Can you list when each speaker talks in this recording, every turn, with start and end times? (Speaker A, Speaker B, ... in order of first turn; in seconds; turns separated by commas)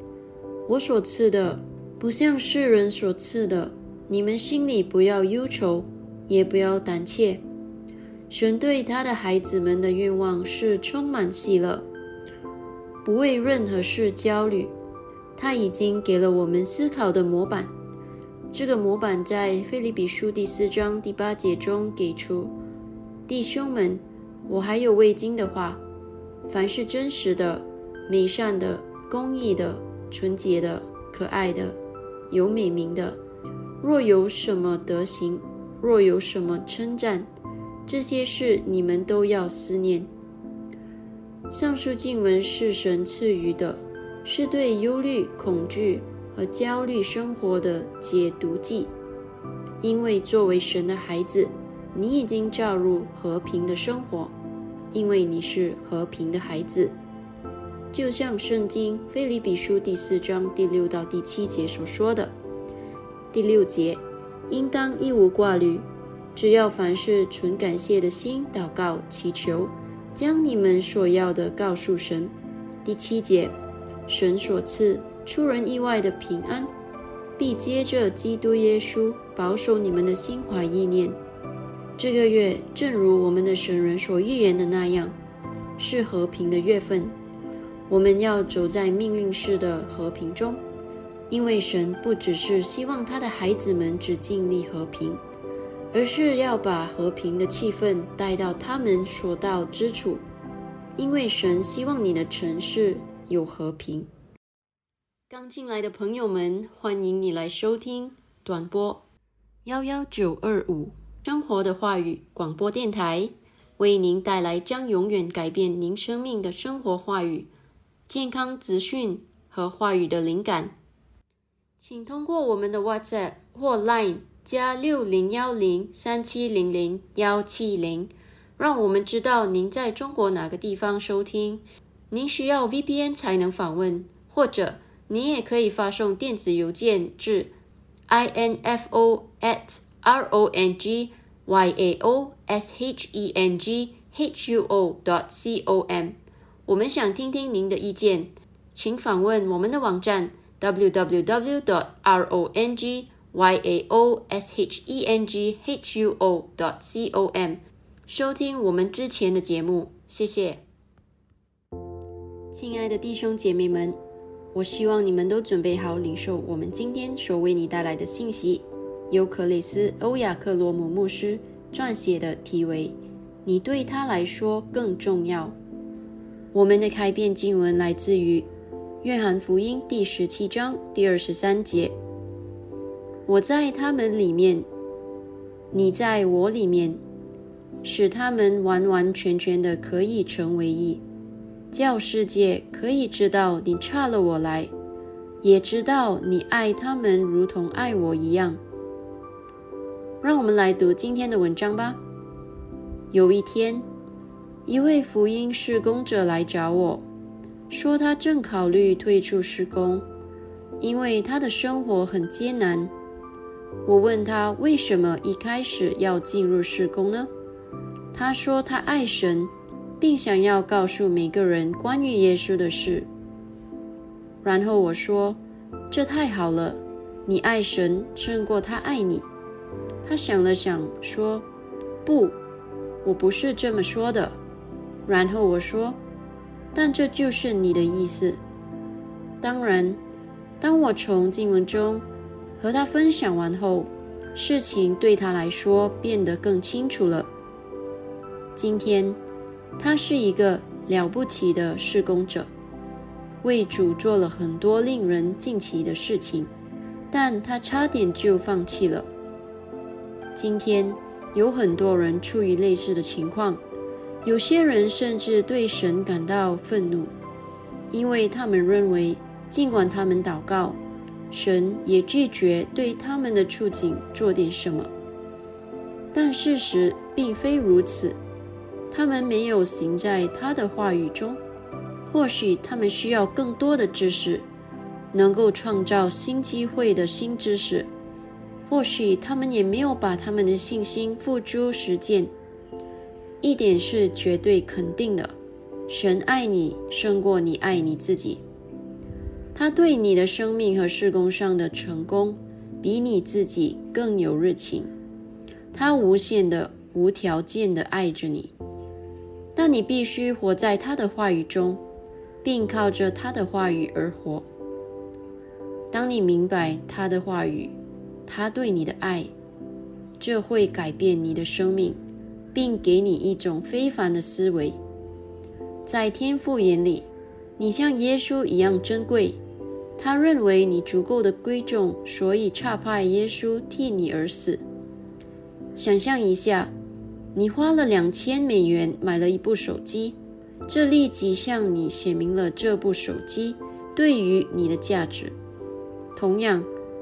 Speaker A: 0.7-7.4, Speaker A: 8.3-11.9, Speaker A: 13.0-14.7, Speaker A: 15.3-17.7, Speaker A: 18.5-22.5, Speaker A: 23.3-25.8, Speaker A: 26.5-31.8, Speaker A: 32.3-33.2, Speaker A: 33.8-37.3, Speaker A: 37.9-40.1, Speaker A: 41.5-48.9, Speaker A: 49.8-54.3, Speaker A: 54.9-56.9, Speaker A: 57.9-62.3, Speaker A: 63.3-72.3, Speaker A: 72.8-73.5, Speaker A: 74.1-76.7, Speaker A: 77.4-81.2, Speaker A: 82.0-85.2, Speaker A: 85.8-87.2, Speaker A: 87.9-90.6, Speaker A: 91.3-95.2, Speaker A: 95.9-100.2, Speaker A: 101.0-104.1, Speaker A: 105.3-109.0, Speaker A: 109.6-117.5, Speaker A: 118.1-120.7, Speaker A: 121.8-137.5, Speaker A: 138.1-160.6, Speaker A: 162.5-164.0, Speaker A: 164.5-175.5, Speaker A: 176.5-178.5, Speaker A: 179.0-181.9, Speaker A: 183.3-184.7, Speaker A: 185.7-187.0, Speaker A: 187.8-191.0, Speaker A: 191.7-194.7, Speaker A: 195.4-198.6, Speaker A: 200.2-202.0, Speaker A: 203.1-203.8, Speaker A: 204.7-207.1, Speaker A: 207.7-210.1, Speaker A: 210.8-212.9, Speaker A: 213.8-217.3, Speaker A: 218.1-223.1, Speaker A: 224.4-225.4, Speaker A: 225.9-229.3, Speaker A: 230.0-231.5, Speaker A: 232.0-232.4, Speaker A: 233.0-234.4, Speaker A: 235.1-236.0, Speaker A: 236.7-238.4, Speaker A: 239.4-240.0, Speaker A: 240.6-242.0, Speaker A: 242.6-247.3, Speaker A: 248.6-249.2, Speaker A: 249.8-252.5, Speaker A: 253.4-256.5, Speaker A: 257.1-259.1, Speaker A: 260.3-263.6, Speaker A: 264.2-267.1, Speaker A: 267.9-270.8, Speaker A: 271.3-274.9, Speaker A: 276.1-278.2, Speaker A: 278.9-281.4, Speaker A: 282.1-284.5, Speaker A: 285.1-287.9, Speaker A: 288.7-292.3, Speaker A: 293.4-295.3, Speaker A: 295.9-298.4, Speaker A: 299.5-304.9, Speaker A: 305.7-308.5, Speaker A: 309.6-311.8, Speaker A: 312.4-314.4, Speaker A: 315.9-317.7, Speaker A: 318.3-319.3, Speaker A: 320.2-322.0, Speaker A: 322.5-324.8, Speaker A: 325.9-329.4, Speaker A: 330.0-334.6, Speaker A: 335.8-336.7, Speaker A: 337.3-340.2, Speaker A: 340.7-345.4, Speaker A: 346.1-346.7